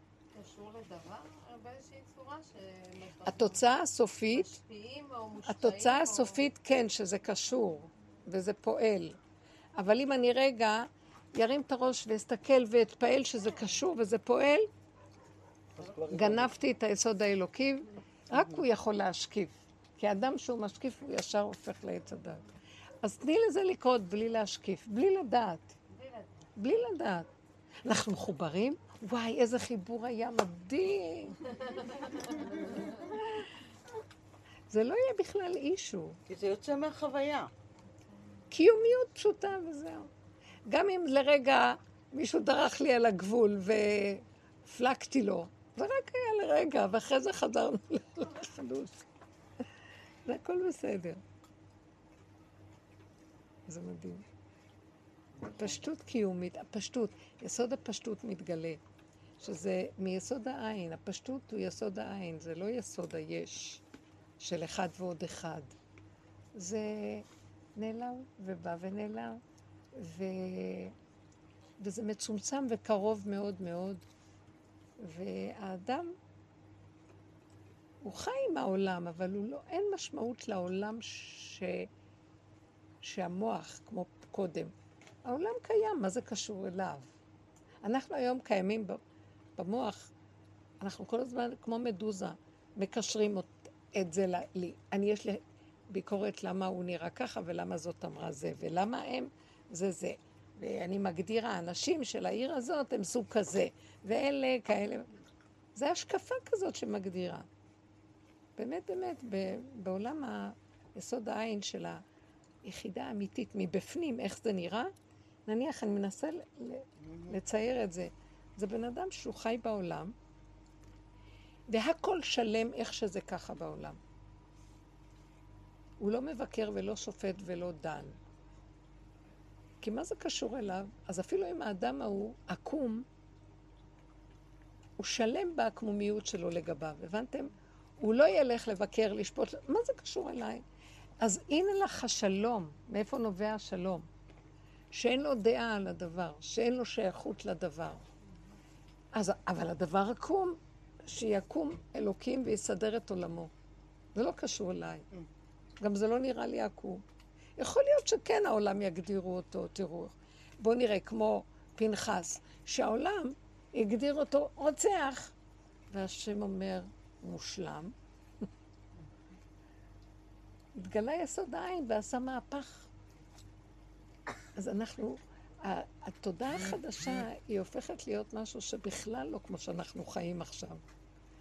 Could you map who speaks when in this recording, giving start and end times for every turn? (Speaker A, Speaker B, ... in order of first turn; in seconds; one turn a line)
Speaker A: 0.3-3.7
Speaker B: 3.2-4.5
Speaker A: 4.3-6.5
Speaker B: 5.4-9.2
Speaker B: 9.8-14.7
Speaker C: 15.8-16.5
Speaker B: 16.1-22.4
Speaker C: 18.3-18.6
Speaker B: 23.0-25.8
Speaker A: 25.9-26.5
Speaker B: 26.6-27.3
Speaker B: 27.8-31.4
Speaker A: 31.7-32.9
Speaker B: 34.7-36.2
Speaker C: 36.3-37.5
Speaker B: 38.5-40.1
Speaker B: 40.7-49.0
Speaker B: 50.3-51.2
Speaker B: 53.7-54.2
Speaker C: 55.4-55.8
Speaker B: 55.5-58.8
Speaker B: 59.4-63.8
Speaker B: 64.4-65.7
Speaker B: 66.5-69.4
Speaker B: 69.9-70.9
Speaker B: 71.8-74.0
Speaker B: 75.0-76.1
Speaker B: 78.0-81.9
Speaker B: 83.0-84.7
Speaker B: 85.2-87.1
Speaker B: 87.8-89.0
Speaker B: 89.6-90.1
Speaker B: 90.8-105.1
Speaker B: 105.7-107.5
Speaker B: 108.6-112.0
Speaker B: 112.6-114.9
Speaker B: 115.5-120.1
Speaker C: 117.0-117.4
Speaker B: 121.7-124.0
Speaker B: 126.0-128.2
Speaker B: 129.8-133.1
Speaker B: 135.0-140.6
Speaker B: 141.2-144.1
Speaker B: 144.9-148.0
Speaker B: 149.1-153.5
Speaker B: 154.1-155.1
Speaker B: 155.8-157.0
Speaker B: 157.6-165.3
Speaker B: 165.9-167.9
Speaker B: 170.8-172.9
Speaker B: 174.6-180.8